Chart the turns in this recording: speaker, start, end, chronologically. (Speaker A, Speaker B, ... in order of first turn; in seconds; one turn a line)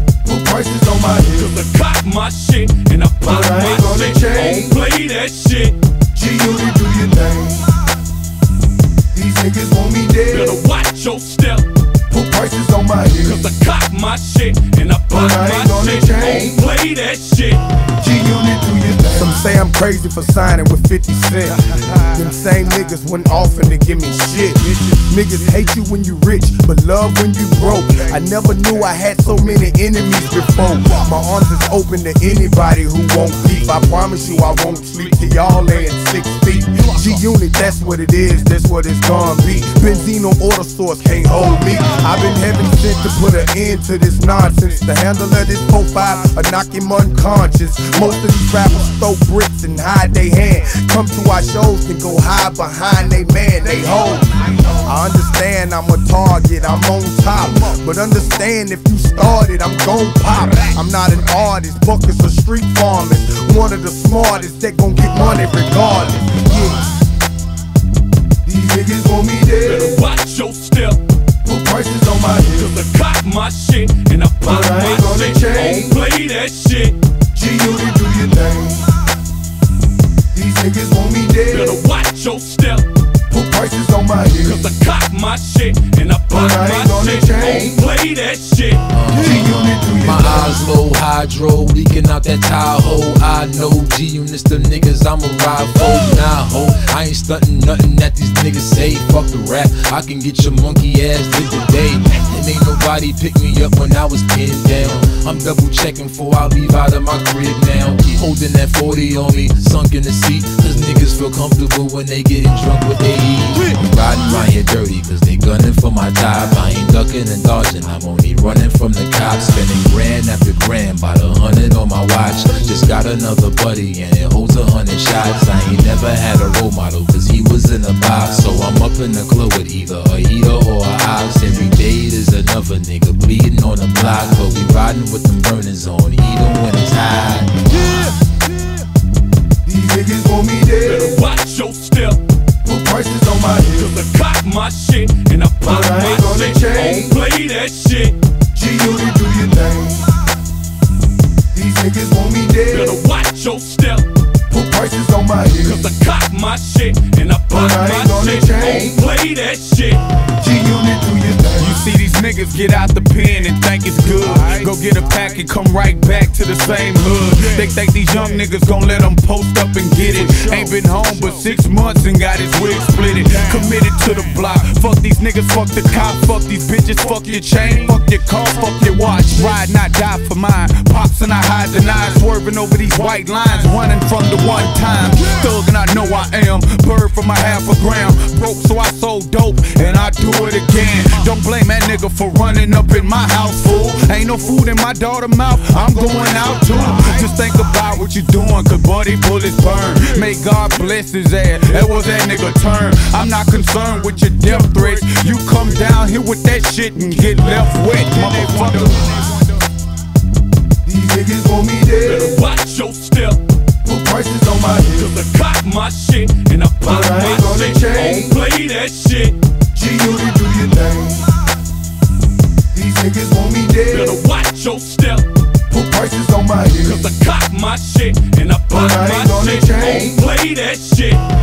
Speaker A: 0.2-1.5
Speaker B: 1.4-5.8
Speaker A: 3.2-4.7
Speaker A: 6.1-7.8
Speaker A: 9.1-10.6
Speaker B: 10.3-11.7
Speaker A: 12.1-13.4
Speaker B: 13.2-17.6
Speaker A: 15.1-16.5
Speaker A: 18.0-66.9
Speaker A: 68.5-70.0
Speaker B: 69.6-71.0
Speaker A: 71.4-72.7
Speaker B: 72.5-77.0
Speaker A: 74.4-75.8
Speaker A: 77.3-79.0
Speaker A: 80.3-81.8
Speaker B: 81.5-82.9
Speaker A: 83.3-84.6
Speaker B: 84.4-88.9
Speaker A: 86.3-87.7
Speaker C: 88.9-137.5
Speaker A: 89.2-90.6
Speaker A: 139.7-141.2
Speaker B: 140.8-142.2
Speaker A: 142.6-143.9
Speaker B: 143.8-148.2
Speaker A: 145.7-147.1
Speaker A: 148.5-150.2
Speaker A: 151.5-153.0
Speaker B: 152.7-154.1
Speaker A: 154.5-155.8
Speaker B: 155.6-160.1
Speaker A: 157.5-158.9
Speaker A: 160.4-161.8
Speaker D: 161.6-209.4
Speaker B: 170.2-170.7
Speaker A: 210.8-212.4
Speaker B: 212.0-213.4
Speaker A: 213.8-215.1
Speaker B: 214.9-219.4
Speaker A: 216.8-218.3
Speaker A: 219.7-221.4
Speaker A: 222.7-224.2
Speaker B: 223.9-225.3
Speaker A: 225.7-227.0
Speaker B: 226.8-231.3
Speaker A: 228.7-230.1